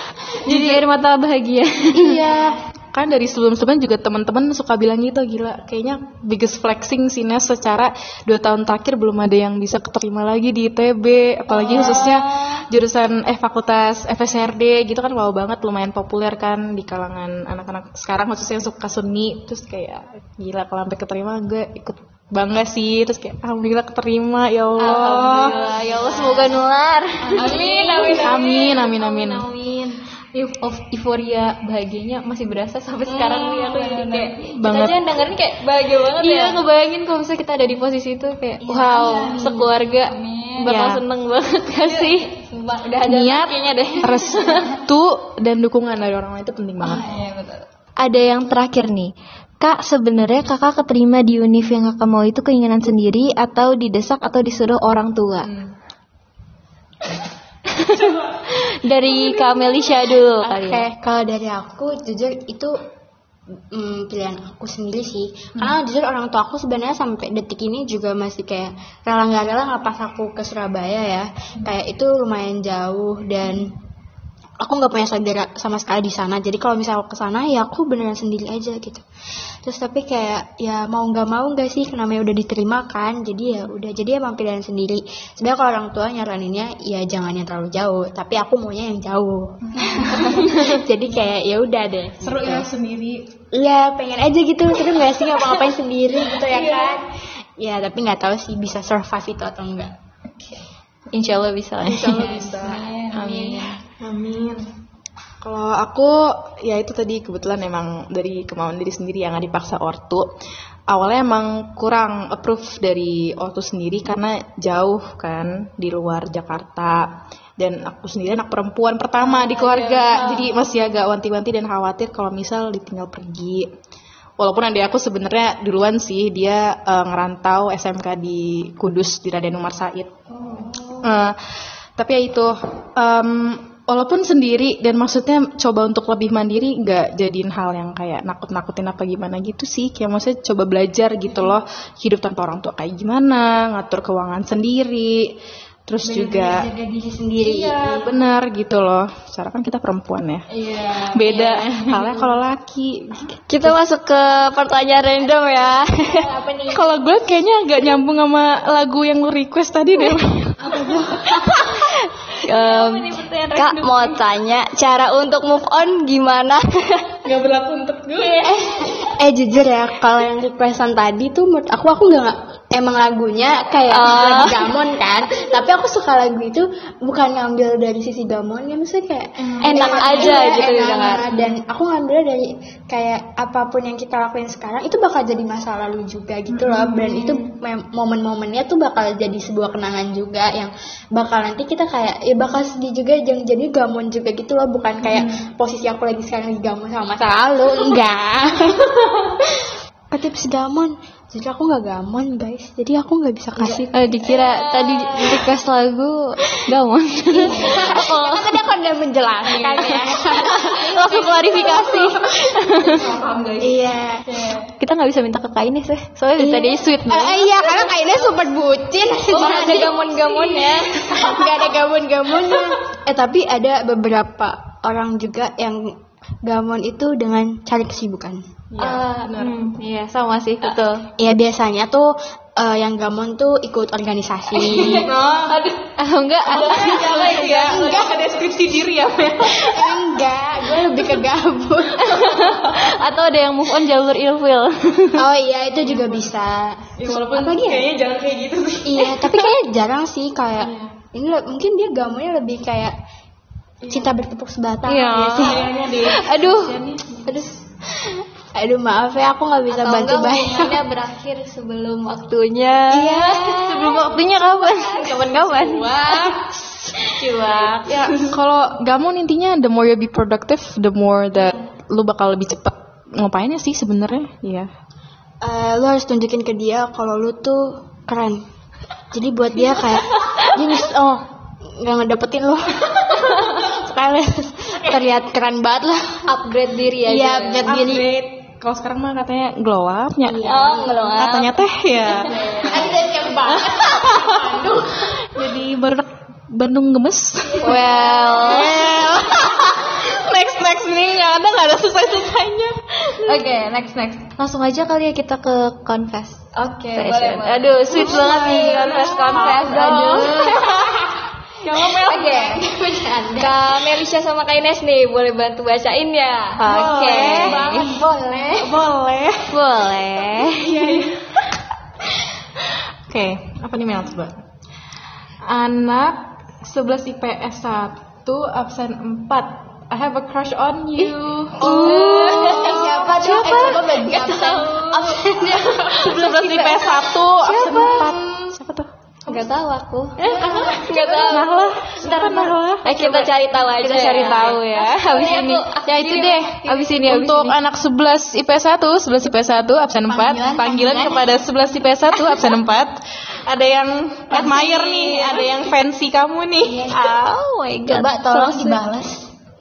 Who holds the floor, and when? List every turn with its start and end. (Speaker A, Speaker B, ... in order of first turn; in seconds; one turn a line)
Speaker A: 0.5-0.8
Speaker B: 0.5-2.2
Speaker A: 1.9-25.6
Speaker C: 2.1-2.6
Speaker D: 11.6-12.6
Speaker B: 24.8-34.4
Speaker D: 24.9-26.6
Speaker C: 26.1-26.5
Speaker D: 27.2-28.4
Speaker C: 27.4-28.0
Speaker A: 28.1-29.5
Speaker D: 33.1-36.6
Speaker A: 34.5-35.1
Speaker B: 36.2-42.3
Speaker C: 38.6-39.7
Speaker D: 40.1-40.9
Speaker A: 40.6-41.0
Speaker D: 41.8-44.7
Speaker A: 43.0-47.0
Speaker D: 46.8-47.6
Speaker B: 48.0-55.5
Speaker A: 55.4-55.7
Speaker B: 57.8-60.9
Speaker C: 60.4-62.8
Speaker C: 63.7-73.8
Speaker C: 74.6-79.0
Speaker C: 79.6-92.7
Speaker A: 89.7-90.6
Speaker A: 92.2-93.2
Speaker C: 93.5-99.9
Speaker B: 101.1-102.5
Speaker A: 101.8-104.7
Speaker D: 102.6-103.4
Speaker B: 103.1-103.8
Speaker A: 105.4-110.3
Speaker A: 110.9-123.7
Speaker A: 124.4-130.1
Speaker A: 131.0-131.4
Speaker A: 132.0-145.3
Speaker A: 145.9-146.7
Speaker C: 146.1-148.1
Speaker A: 147.4-150.5
Speaker C: 150.6-152.3
Speaker A: 151.1-153.8
Speaker D: 153.5-156.2
Speaker C: 155.2-156.9
Speaker A: 156.7-161.8
Speaker C: 160.8-161.1
Speaker D: 162.4-167.1
Speaker B: 162.4-164.2
Speaker A: 167.2-168.8
Speaker C: 168.4-204.4
Speaker D: 173.9-174.7
Speaker A: 179.6-180.0
Speaker D: 179.6-181.2
Speaker B: 179.8-180.4
Speaker A: 186.5-187.3
Speaker A: 195.0-195.4
Speaker B: 203.6-208.6
Speaker C: 205.0-205.4
Speaker C: 207.3-212.2
Speaker B: 209.5-213.1
Speaker A: 212.7-213.9
Speaker C: 212.9-214.3
Speaker B: 214.7-218.2
Speaker C: 216.4-228.4
Speaker D: 219.3-221.1
Speaker B: 219.3-219.8
Speaker A: 228.7-229.6
Speaker B: 228.8-231.1
Speaker C: 231.2-235.1
Speaker B: 234.6-238.1
Speaker A: 234.7-235.6
Speaker A: 236.4-240.2
Speaker C: 237.5-238.1
Speaker C: 239.4-242.6
Speaker B: 242.0-245.3
Speaker C: 245.2-247.9
Speaker A: 245.8-246.3
Speaker A: 247.0-249.5
Speaker C: 248.8-252.9
Speaker A: 250.6-250.9
Speaker C: 253.9-255.8
Speaker B: 254.9-256.8
Speaker A: 255.2-257.2
Speaker C: 257.2-260.8
Speaker D: 259.7-263.9
Speaker B: 262.9-266.3
Speaker D: 264.6-266.0
Speaker A: 265.3-266.4
Speaker B: 267.1-268.1
Speaker D: 267.2-267.9
Speaker A: 267.7-274.7
Speaker C: 275.4-278.4
Speaker C: 279.1-281.2
Speaker C: 281.8-288.1
Speaker D: 286.3-287.6
Speaker B: 286.7-287.8
Speaker A: 287.6-303.0
Speaker C: 290.3-291.2
Speaker D: 290.5-291.6
Speaker C: 292.0-295.2
Speaker B: 297.6-298.9
Speaker B: 303.2-310.7
Speaker D: 306.6-308.9
Speaker C: 307.9-311.2
Speaker A: 308.3-309.6
Speaker A: 310.4-311.0
Speaker A: 311.7-312.4
Speaker C: 311.7-313.7
Speaker D: 312.1-312.5
Speaker D: 313.4-318.0
Speaker A: 316.6-317.7
Speaker B: 316.6-317.6
Speaker C: 316.9-318.7
Speaker A: 318.5-319.6
Speaker B: 319.5-320.7
Speaker D: 319.6-320.4
Speaker A: 320.5-321.5
Speaker C: 320.8-321.1
Speaker A: 322.6-324.4
Speaker A: 325.4-333.8
Speaker B: 331.6-333.8
Speaker C: 331.6-336.2
Speaker D: 331.7-332.4
Speaker D: 333.4-335.1
Speaker B: 335.4-338.2
Speaker A: 335.8-338.9
Speaker B: 339.3-341.5
Speaker D: 339.3-339.6
Speaker D: 340.2-346.6
Speaker C: 340.3-340.8
Speaker A: 340.5-343.1
Speaker B: 342.1-347.6
Speaker A: 345.9-356.9
Speaker C: 350.1-351.2
Speaker D: 354.5-355.4
Speaker C: 356.7-357.2
Speaker B: 356.9-358.8
Speaker C: 357.9-359.3